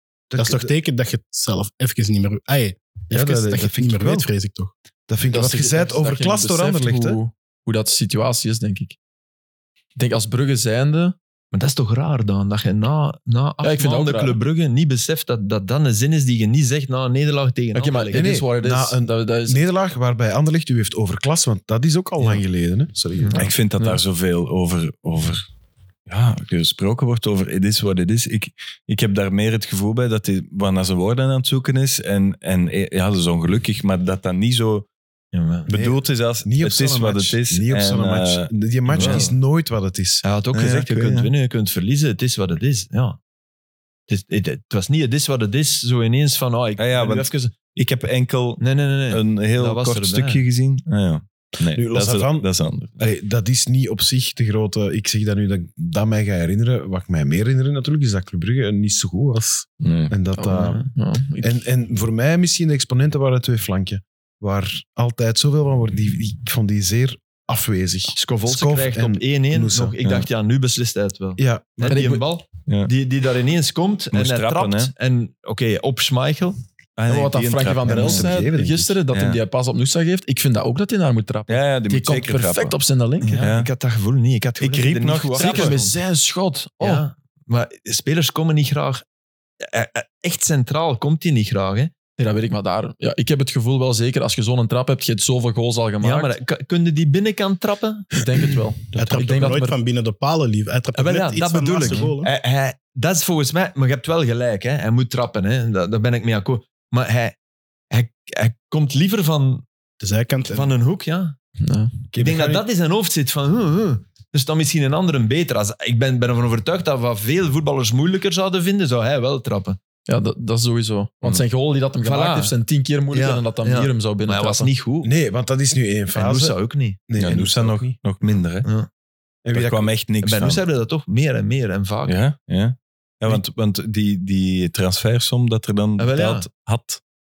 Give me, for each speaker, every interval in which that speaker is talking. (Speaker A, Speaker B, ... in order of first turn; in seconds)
Speaker A: 0.3-0.7, 3.1-4.3, 5.1-7.2, 18.1-23.5, 35.7-40.2, 51.7-52.5, 53.0-60.8, 61.4-70.0, 71.4-72.0, 77.8-79.0, 112.1-112.7, 125.0-128.0, 129.4-129.9
Speaker B: 0.4-4.7, 98.9-102.3, 110.0-110.7
Speaker C: 5.3-8.9, 9.9-11.2, 13.6-14.4, 17.7-19.6, 60.4-61.6, 71.9-72.2, 77.1-83.4, 85.3-87.0, 92.2-96.3, 98.1-99.8, 111.6-112.0, 120.1-124.7
Speaker D: 11.5-18.4, 35.3-35.7, 38.9-39.4, 40.2-43.2, 44.1-47.5, 48.6-50.4, 60.5-60.9, 68.1-76.6, 83.2-86.0, 86.8-89.0, 89.6-91.9, 96.0-98.2, 100.9-107.4, 107.9-109.7, 110.5-111.4, 112.2-119.8, 122.0-122.5, 123.1-125.1, 126.1-127.0, 128.6-128.9, 130.2-132.2, 136.0-136.5
Speaker E: 23.4-25.4, 26.1-34.9, 35.7-39.3, 40.5-41.3, 46.8-52.9, 59.8-60.1, 74.1-74.9, 77.0-78.3, 79.1-79.4, 81.5-82.8, 83.4-83.7, 84.6-85.8, 127.2-128.7, 129.5-130.6, 132.1-137.0